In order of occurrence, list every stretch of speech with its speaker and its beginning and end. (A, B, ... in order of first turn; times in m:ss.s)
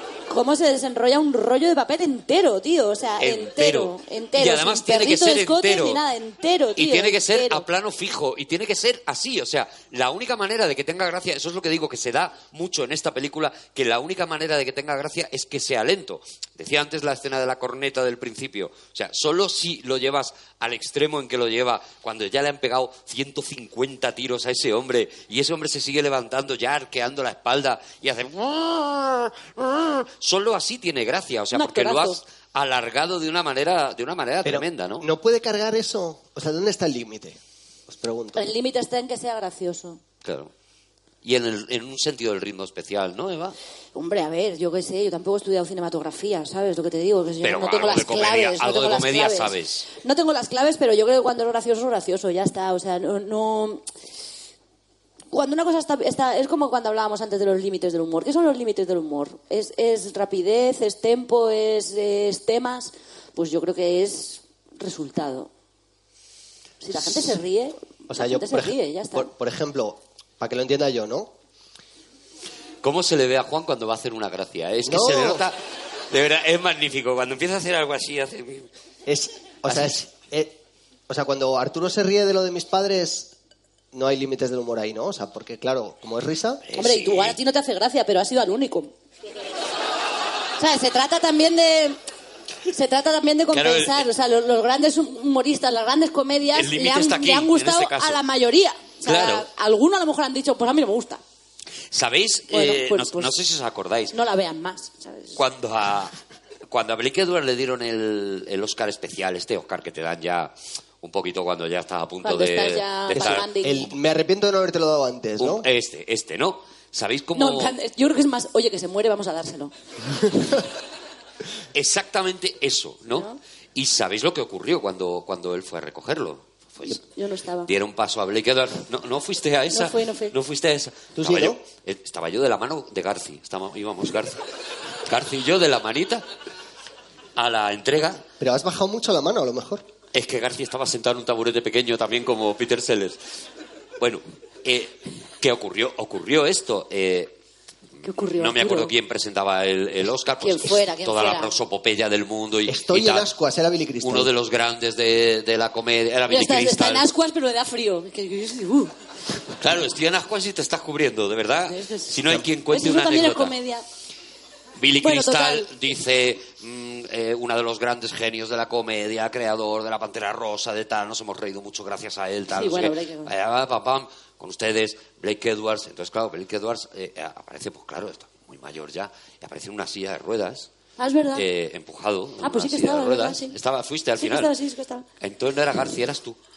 0:00.3-0:07.6 A
0:03.2-0:06.0 B
0:06.8-0:35.1 B
0:31.5-0:32.2 A
0:34.4-0:38.5 C
0:38.3-0:40.0 A
0:40.2-0:40.5 B
0:41.2-0:43.6 B
0:43.9-0:53.8 A
0:47.4-0:49.9 B
0:55.3-1:05.5 A
1:06.8-1:09.3 A
1:08.1-1:11.3 C
1:12.8-1:15.6 B
1:14.8-1:15.4 C
1:16.1-1:18.7 B
1:19.0-1:23.3 C
1:19.7-1:19.9 B
1:23.9-1:26.6 C
1:26.7-1:27.4 B
1:26.8-1:28.9 A
1:30.6-1:32.0 A
1:32.7-1:41.2 A
1:33.5-1:34.0 B
1:36.5-1:38.2 B
1:39.0-1:39.4 B
1:41.9-1:44.1 B
1:42.5-1:43.3 A
1:44.1-1:45.4 A
1:45.3-1:46.1 B
1:46.7-1:53.5 B
1:52.2-1:53.9 A
1:53.2-1:55.6 C
1:55.4-1:57.7 B
1:57.4-1:59.7 A
2:01.7-2:07.0 B
2:03.1-2:03.4 A
2:07.0-2:07.7 A
2:07.6-2:14.4 B
2:09.7-2:10.3 A
2:11.2-2:11.6 C
2:15.0-2:16.2 B
2:17.4-2:18.2 B
2:18.4-2:19.8 C
2:20.1-2:23.2 B
2:24.0-2:27.3 B
2:28.0-2:28.9 A
2:28.4-2:33.3 B
2:30.4-2:31.5 A
2:32.7-2:34.3 C
2:34.0-2:37.1 B
2:36.3-2:38.9 A
2:39.6-2:43.5 B
2:41.7-2:43.8 A
2:44.8-3:00.7 B
2:45.0-2:45.7 A
2:52.5-2:53.3 A
3:01.0-3:01.4 A
3:01.3-3:04.5 B
3:02.4-3:03.5 A
3:04.2-3:05.0 A
3:05.2-3:06.4 B